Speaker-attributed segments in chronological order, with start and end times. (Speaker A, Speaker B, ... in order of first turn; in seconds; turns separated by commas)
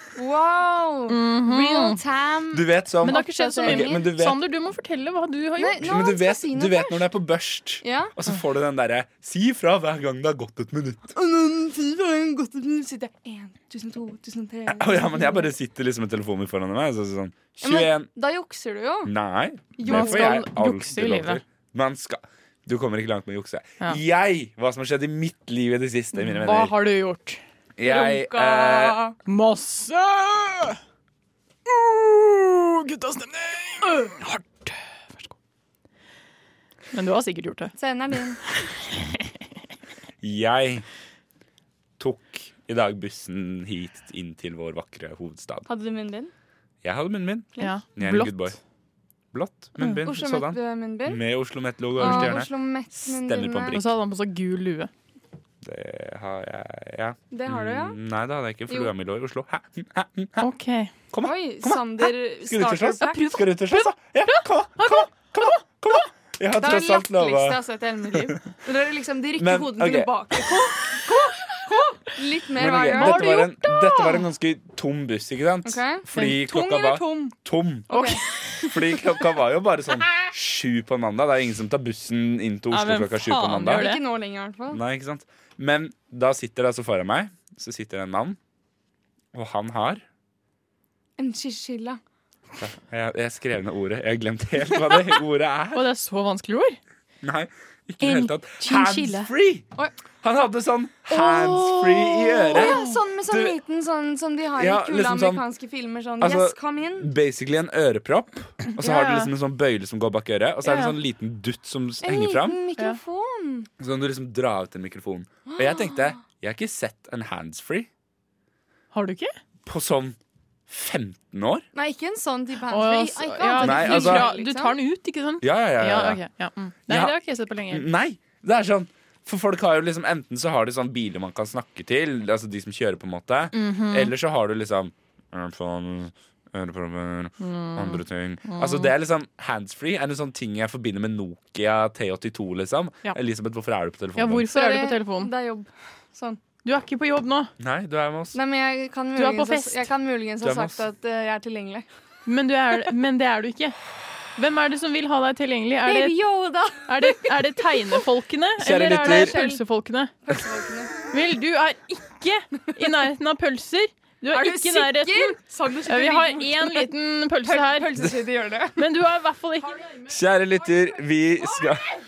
Speaker A: 0.1-4.1, Speaker B: 1.1-2.0, Speaker C: 2.5-4.4, Speaker B: 3.0-5.9, Speaker A: 5.6-7.1, Speaker C: 5.8-11.1, Speaker A: 7.8-8.1, Speaker A: 11.1-15.5, Speaker C: 14.7-18.1, Speaker A: 17.6-19.1, Speaker C: 19.0-26.8, Speaker A: 19.8-20.4, Speaker B: 19.8-21.4, Speaker B: 26.1-27.4, Speaker C: 27.8-29.0, Speaker A: 27.8-29.1, Speaker B: 29.2-30.8, Speaker B: 31.7-35.4, Speaker B: 36.9-37.7, Speaker A: 37.8-38.4, Speaker C: 40.2-40.9, Speaker C: 42.0-45.6, Speaker A: 45.7-46.3, Speaker C: 46.8-48.6, Speaker B: 47.6-48.6, Speaker C: 49.3-52.5, Speaker A: 50.0-51.2, Speaker A: 52.0-53.8, Speaker B: 52.0-52.4, Speaker C: 53.1-53.9, Speaker B: 53.7-54.9, Speaker C: 55.6-60.5, Speaker A: 57.3-58.0, Speaker B: 60.4-60.9, Speaker C: 61.1-67.6, Speaker A: 61.2-63.2, Speaker B: 63.0-66.0, Speaker A: 66.6-73.5, Speaker C: 69.4-70.1, Speaker C: 72.6-77.9, Speaker B: 72.9-74.1, Speaker A: 75.6-77.3, Speaker A: 77.9-78.2, Speaker B: 77.9-78.8, Speaker C: 78.6-83.9, Speaker B: 82.7-84.0, Speaker A: 83.7-84.8, Speaker C: 84.7-88.4, Speaker C: 89.3-90.0, Speaker A: 91.2-92.0, Speaker C: 92.6-95.9, Speaker B: 95.7-96.8, Speaker C: 97.2-99.7, Speaker B: 98.0-99.3, Speaker C: 100.2-103.6, Speaker B: 101.1-103.0, Speaker A: 102.5-107.1, Speaker C: 104.6-105.4, Speaker C: 106.2-112.6, Speaker B: 108.7-109.3, Speaker B: 110.6-111.0, Speaker A: 112.0-113.7, Speaker C: 113.8-117.9, Speaker A: 115.5-116.0, Speaker B: 118.9-119.3, Speaker C: 119.7-120.2, Speaker C: 120.7-121.6, Speaker A: 121.8-124.8, Speaker B: 122.7-127.9, Speaker C: 123.6-124.3, Speaker C: 125.4-126.2, Speaker C: 126.9-127.2, Speaker C: 127.7-144.5, Speaker B: 133.5-134.1, Speaker B: 137.4-138.9, Speaker B: 144.2-145.3, Speaker A: 144.5-146.4, Speaker B: 146.6-147.5, Speaker C: 147.6-148.4, Speaker A: 148.3-151.8, Speaker B: 149.1-149.9, Speaker C: 150.4-150.8, Speaker B: 152.2-153.8, Speaker B: 154.3-156.2, Speaker A: 155.8-157.3, Speaker B: 156.8-160.1, Speaker C: 158.6-159.4, Speaker A: 158.8-159.6, Speaker A: 160.2-160.9, Speaker B: 161.1-168.0, Speaker A: 164.3-166.9, Speaker A: 167.4-168.8, Speaker B: 168.8-169.9, Speaker C: 170.1-171.9